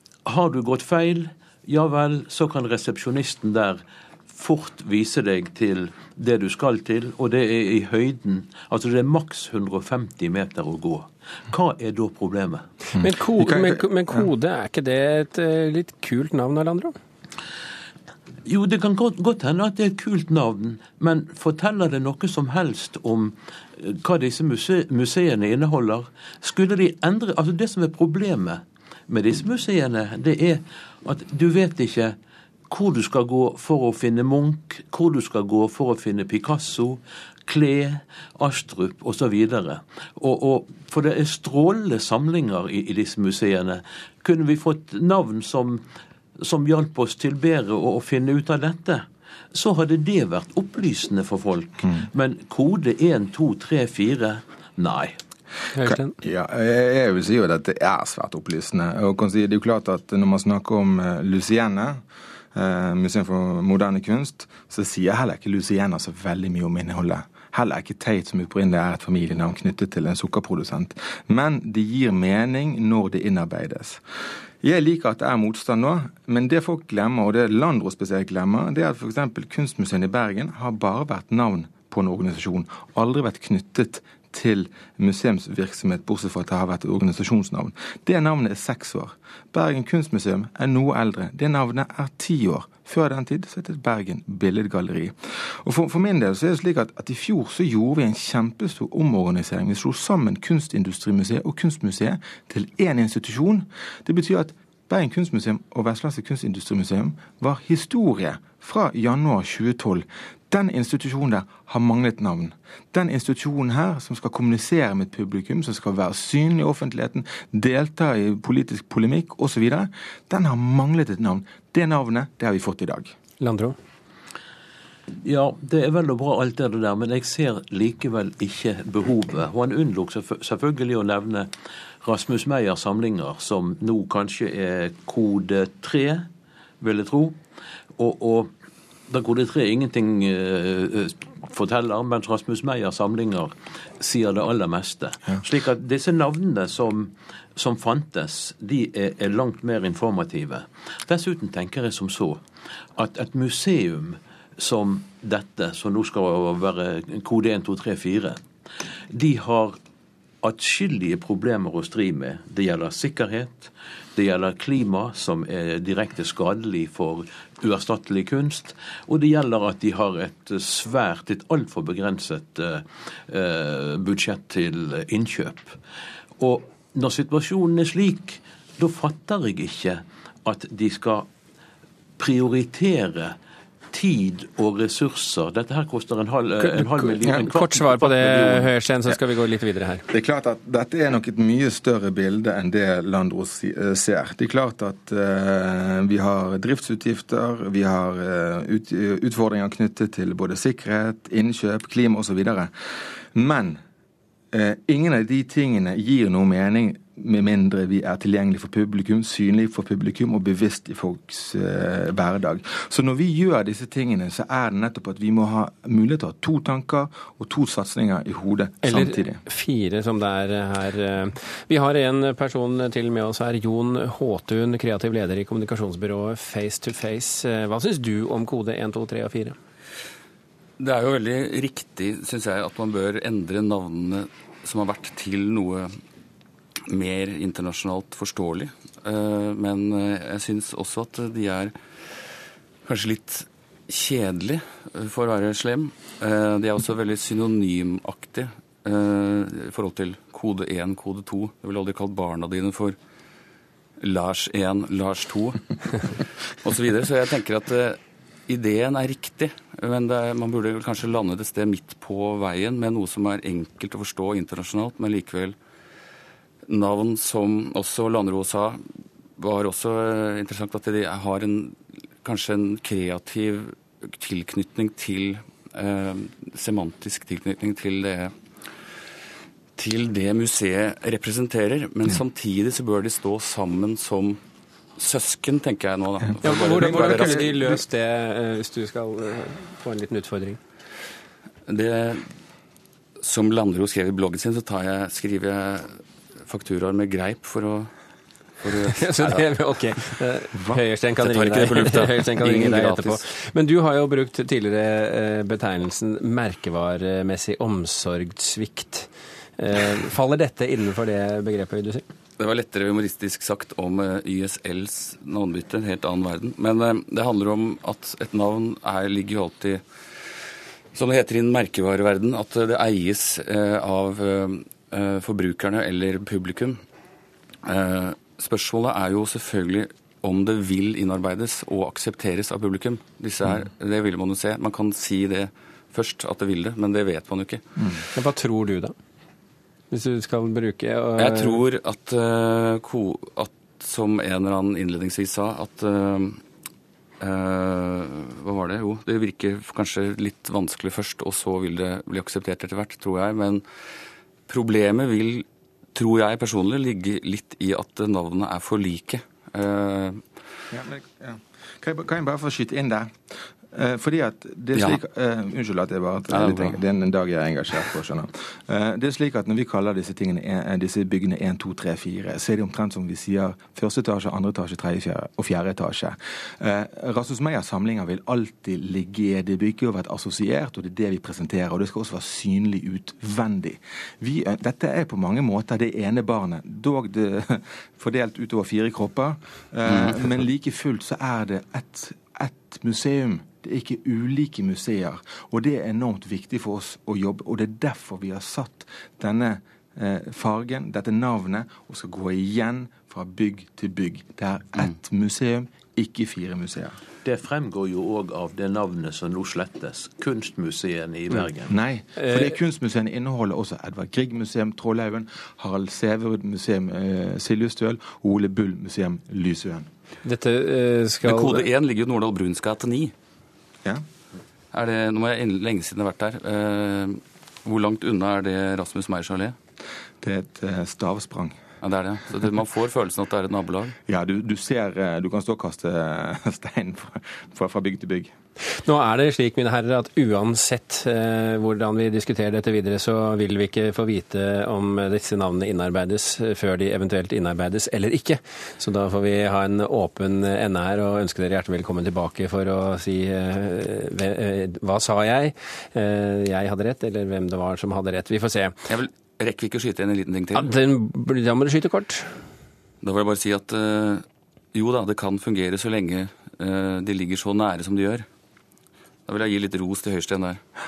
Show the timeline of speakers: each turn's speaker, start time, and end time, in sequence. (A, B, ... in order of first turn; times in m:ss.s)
0:00.2-0:12.6 A
0:13.0-0:14.1 B
0:13.0-0:16.9 C
0:18.4-0:32.2 A
0:32.7-0:45.8 A
0:46.4-0:55.1 A
0:55.7-0:56.1 C
0:55.8-1:02.0 B
1:02.5-1:14.0 B
1:14.6-2:03.1 B
2:03.4-2:03.8 C
2:05.2-2:11.5 A
2:12.0-2:16.3 A
2:16.8-2:17.4 A
2:18.0-2:18.5 A
2:19.1-2:32.4 A
2:33.0-2:38.4 A
2:39.1-2:39.8 A
2:40.4-2:55.8 A
2:56.4-3:01.3 A
3:02.2-3:03.3 A
3:03.9-3:08.8 A
3:06.6-3:10.0 C
3:10.1-3:22.7 B
3:23.3-3:23.8 B
3:24.5-3:39.4 B
3:38.8-3:49.6 C
3:50.8-3:55.9 D
3:56.9-4:01.7 D
4:02.8-4:13.0 D
4:14.0-4:16.0 D
4:16.6-4:25.6 D
4:26.7-4:28.8 D
4:29.4-4:38.3 D
4:39.8-4:44.4 D
4:45.0-4:47.6 D
4:46.4-4:50.6 C
4:51.7-4:52.3 D
4:53.2-4:57.9 D
4:58.6-4:59.7 D
4:58.9-5:12.0 C
5:00.6-5:03.2 D
5:12.4-5:19.8 D
5:20.9-5:26.8 D
5:27.6-5:37.6 D
5:38.1-5:38.9 C
5:39.9-5:41.6 C
5:41.2-5:46.4 D
5:47.2-5:53.6 D
5:54.5-6:00.2 D
6:00.7-6:03.1 B
6:03.7-6:47.0 B
6:06.3-6:06.8 D
6:29.8-6:30.2 D
6:47.2-6:51.7 A
6:51.7-6:59.9 B
7:00.2-7:01.6 C
7:01.2-7:03.1 D
7:04.7-7:09.6 D
7:10.2-7:11.6 B
7:11.8-7:14.0 D
7:14.1-7:18.3 B
7:18.8-7:38.7 C
7:38.9-7:40.7 D
7:40.6-7:42.2 C
7:43.0-7:48.2 D
7:49.3-7:50.6 D